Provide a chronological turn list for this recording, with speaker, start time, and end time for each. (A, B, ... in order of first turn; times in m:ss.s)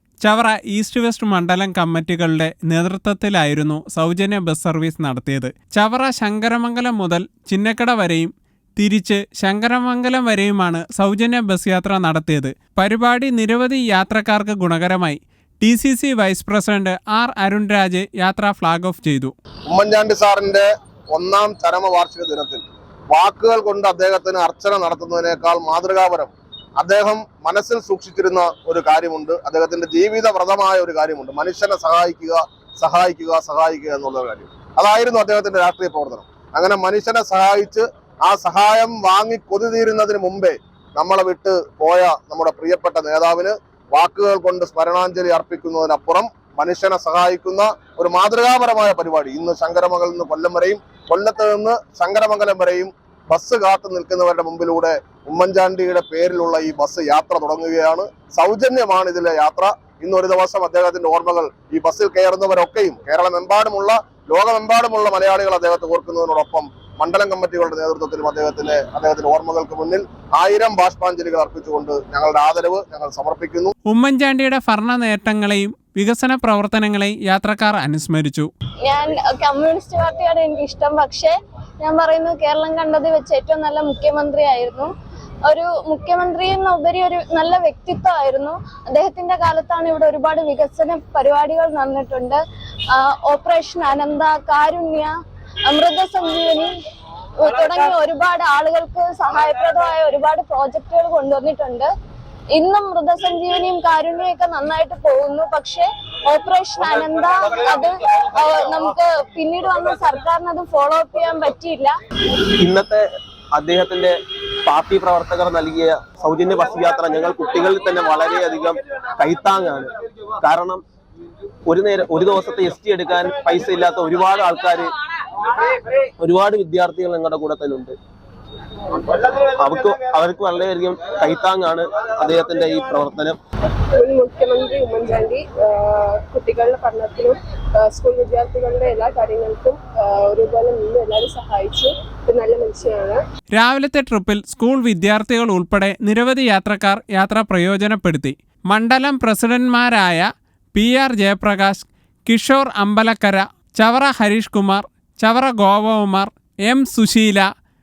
0:00.2-0:19.3 A
0:19.7-1:13.7 B
1:13.9-1:18.5 A
1:18.8-1:24.9 C
1:25.5-1:32.4 C
1:32.9-1:35.1 C
1:35.7-1:36.7 C
1:37.4-1:41.9 C
1:42.5-1:51.9 C
1:52.6-2:00.8 D
2:01.7-2:04.9 D
2:06.2-2:07.9 D
2:09.4-2:13.4 D
2:14.0-2:23.2 E
2:23.5-2:37.5 A